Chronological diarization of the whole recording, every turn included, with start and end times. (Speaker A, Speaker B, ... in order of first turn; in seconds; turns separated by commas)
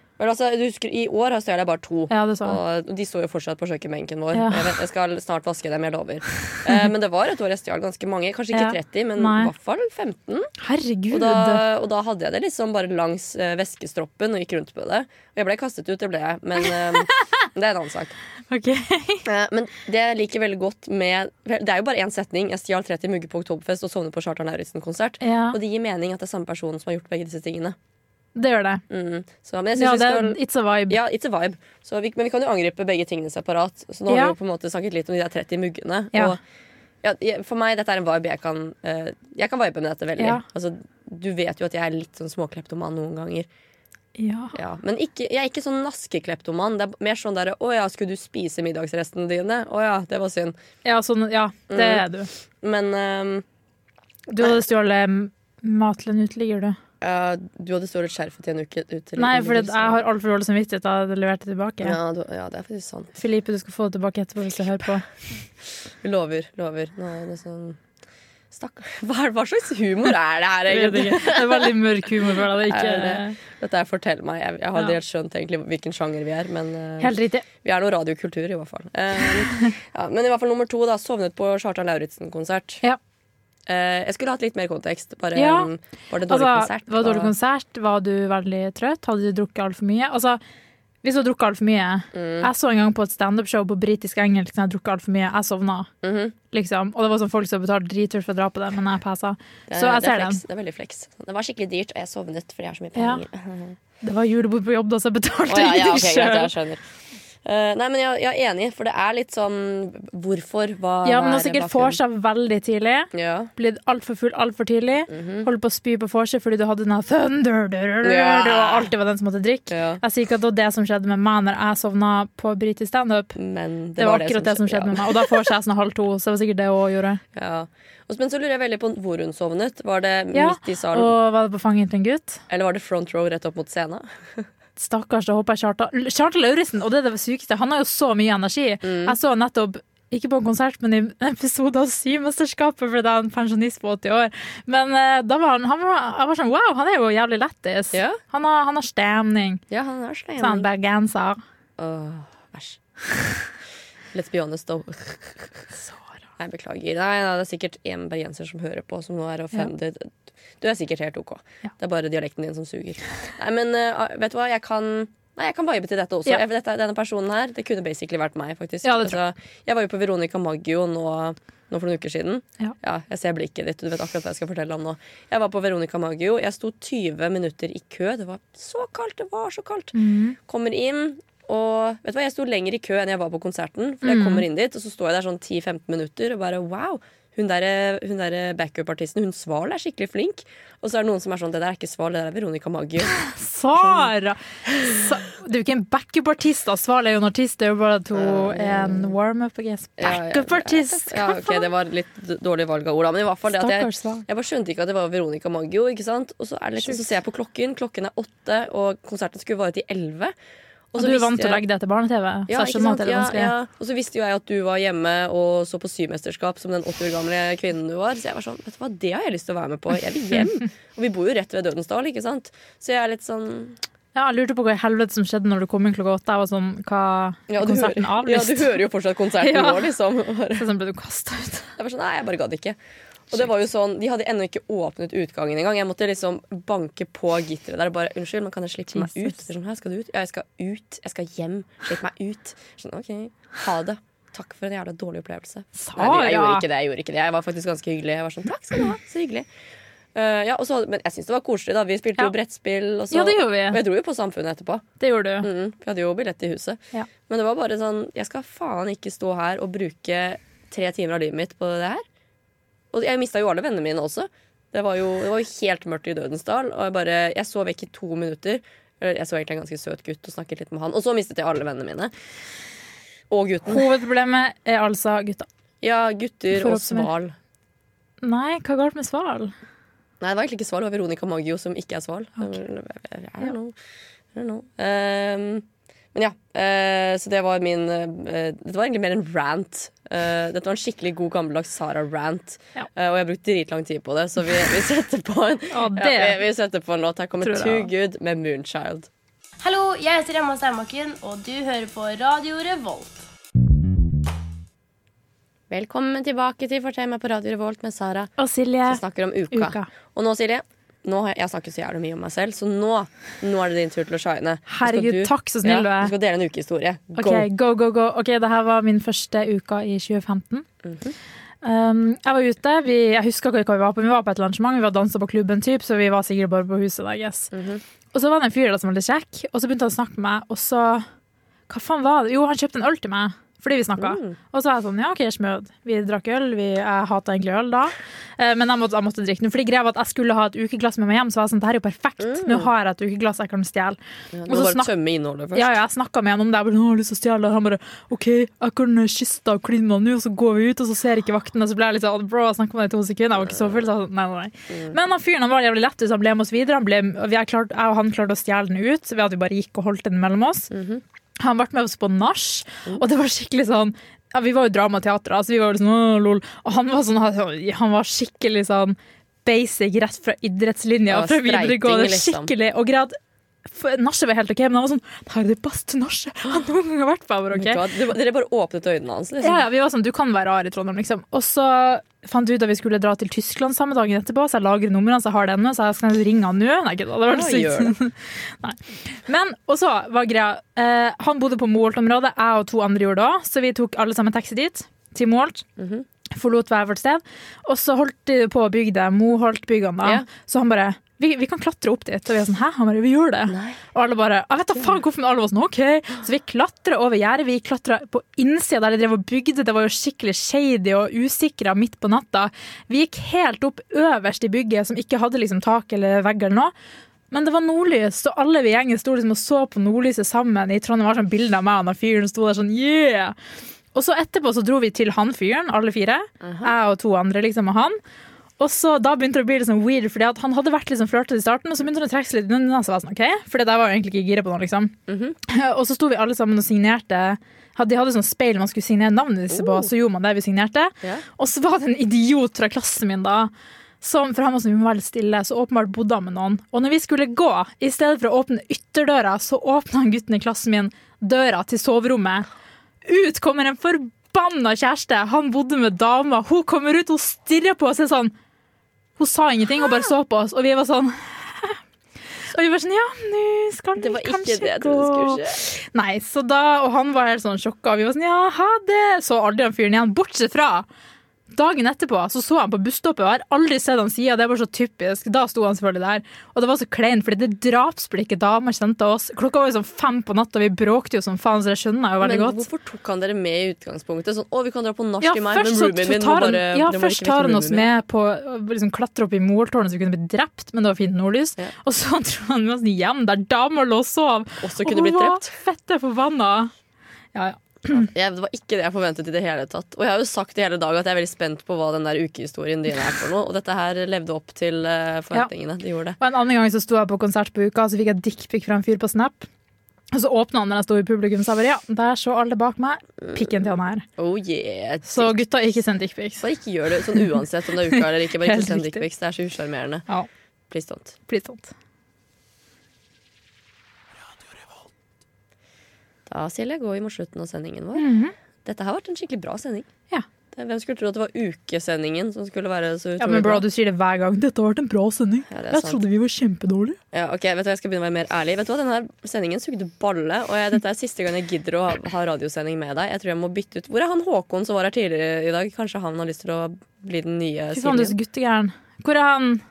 Speaker A: 0.2-10.5, Speaker B: 2.1-2.6, Speaker B: 4.3-4.7, Speaker B: 8.5-9.5, Speaker B: 10.6-11.6, Speaker A: 11.1-18.1, Speaker B: 17.0-17.3, Speaker B: 18.5-19.2, Speaker A: 19.3-27.8, Speaker B: 25.2-25.6, Speaker B: 28.4-28.8, Speaker A: 28.9-36.4, Speaker B: 29.8-31.0, Speaker B: 34.1-34.4, Speaker A: 37.0-43.5, Speaker B: 40.2-40.4, Speaker B: 44.2-44.6, Speaker A: 44.5-50.6, Speaker B: 50.9-52.3, Speaker A: 51.7-52.0, Speaker A: 52.6-53.5, Speaker B: 54.3-56.8, Speaker A: 57.0-60.0, Speaker B: 59.2-62.0, Speaker A: 61.8-63.2, Speaker B: 63.2-65.1, Speaker A: 66.0-67.8, Speaker A: 68.5-71.8, Speaker B: 70.7-73.4, Speaker A: 72.6-82.8, Speaker B: 77.0-77.5, Speaker A: 83.7-87.3, Speaker B: 85.3-85.7, Speaker B: 86.3-90.4, Speaker B: 91.0-95.9, Speaker A: 92.1-92.5, Speaker A: 96.0-96.3, Speaker B: 96.5-100.4, Speaker A: 99.7-103.8, Speaker B: 103.0-103.2, Speaker B: 104.0-106.5, Speaker A: 105.5-106.8, Speaker A: 107.5-112.0, Speaker B: 111.0-123.4, Speaker A: 113.1-113.5, Speaker A: 115.1-115.5, Speaker A: 118.0-118.9, Speaker A: 119.7-120.0, Speaker A: 123.4-125.4, Speaker B: 124.0-127.2, Speaker A: 127.3-131.1, Speaker B: 130.3-132.4, Speaker A: 132.5-134.5, Speaker B: 134.8-149.6, Speaker A: 138.8-139.2, Speaker A: 147.9-148.2, Speaker A: 149.7-150.7, Speaker B: 150.4-151.4, Speaker A: 151.8-152.8, Speaker A: 154.1-155.7, Speaker A: 156.4-179.9, Speaker B: 168.8-169.2, Speaker B: 179.9-180.4, Speaker A: 180.5-193.2, Speaker B: 184.0-184.4, Speaker B: 193.1-201.7, Speaker A: 193.8-194.1, Speaker A: 198.2-199.1, Speaker A: 200.0-210.3, Speaker B: 203.5-204.2, Speaker A: 210.9-211.6, Speaker B: 211.0-213.5, Speaker A: 212.5-223.8, Speaker B: 224.2-228.7, Speaker A: 227.5-230.7, Speaker B: 229.4-229.9, Speaker B: 230.6-231.7, Speaker A: 231.8-232.8, Speaker A: 233.3-249.5, Speaker B: 238.9-239.4, Speaker B: 245.8-246.6, Speaker A: 250.2-254.8, Speaker B: 253.1-253.8, Speaker B: 255.0-255.5, Speaker A: 255.4-262.0, Speaker A: 262.9-272.1, Speaker A: 273.3-273.9, Speaker B: 273.7-275.5, Speaker A: 275.8-277.3, Speaker B: 276.6-277.1, Speaker B: 278.2-279.5, Speaker A: 280.2-283.7, Speaker A: 284.4-299.1, Speaker B: 295.7-296.4, Speaker B: 297.4-297.9, Speaker C: 299.6-303.3, Speaker A: 305.7-308.3, Speaker B: 308.4-309.0, Speaker A: 308.9-317.4, Speaker B: 309.5-309.9, Speaker B: 314.7-316.1, Speaker B: 317.2-320.7, Speaker A: 320.8-321.2, Speaker B: 321.6-327.5, Speaker A: 327.5-327.8, Speaker B: 328.1-331.1, Speaker B: 331.7-344.9, Speaker A: 334.0-334.4, Speaker A: 342.2-342.7, Speaker A: 344.3-345.8, Speaker B: 345.6-360.7, Speaker A: 354.7-355.0, Speaker A: 360.7-361.0, Speaker B: 361.4-373.2, Speaker A: 371.1-372.5, Speaker B: 373.7-377.8, Speaker A: 377.5-379.6, Speaker B: 379.4-395.6, Speaker A: 387.3-387.9, Speaker A: 395.8-396.1, Speaker B: 396.3-416.7, Speaker A: 403.5-403.8, Speaker B: 417.3-423.4, Speaker B: 423.9-428.0, Speaker A: 426.4-426.7, Speaker B: 428.6-434.9, Speaker A: 435.1-435.4, Speaker B: 435.4-452.5, Speaker A: 439.5-439.9, Speaker B: 453.1-458.3, Speaker B: 459.2-461.8, Speaker B: 462.5-470.9, Speaker A: 464.0-465.6, Speaker B: 471.5-482.6, Speaker A: 482.2-487.9, Speaker B: 485.2-496.7, Speaker A: 494.6-495.6, Speaker B: 497.4-498.1, Speaker A: 497.9-506.2, Speaker B: 506.2-509.5, Speaker B: 510.1-514.0, Speaker A: 514.2-515.4, Speaker B: 515.1-516.5, Speaker A: 516.4-520.0, Speaker B: 517.9-519.0, Speaker A: 520.7-521.1, Speaker B: 521.3-521.7, Speaker A: 526.3-528.1, Speaker B: 528.0-528.3, Speaker A: 528.6-529.9, Speaker A: 530.5-533.6, Speaker B: 533.2-537.0, Speaker A: 535.5-536.0, Speaker A: 537.1-548.1, Speaker B: 547.7-549.6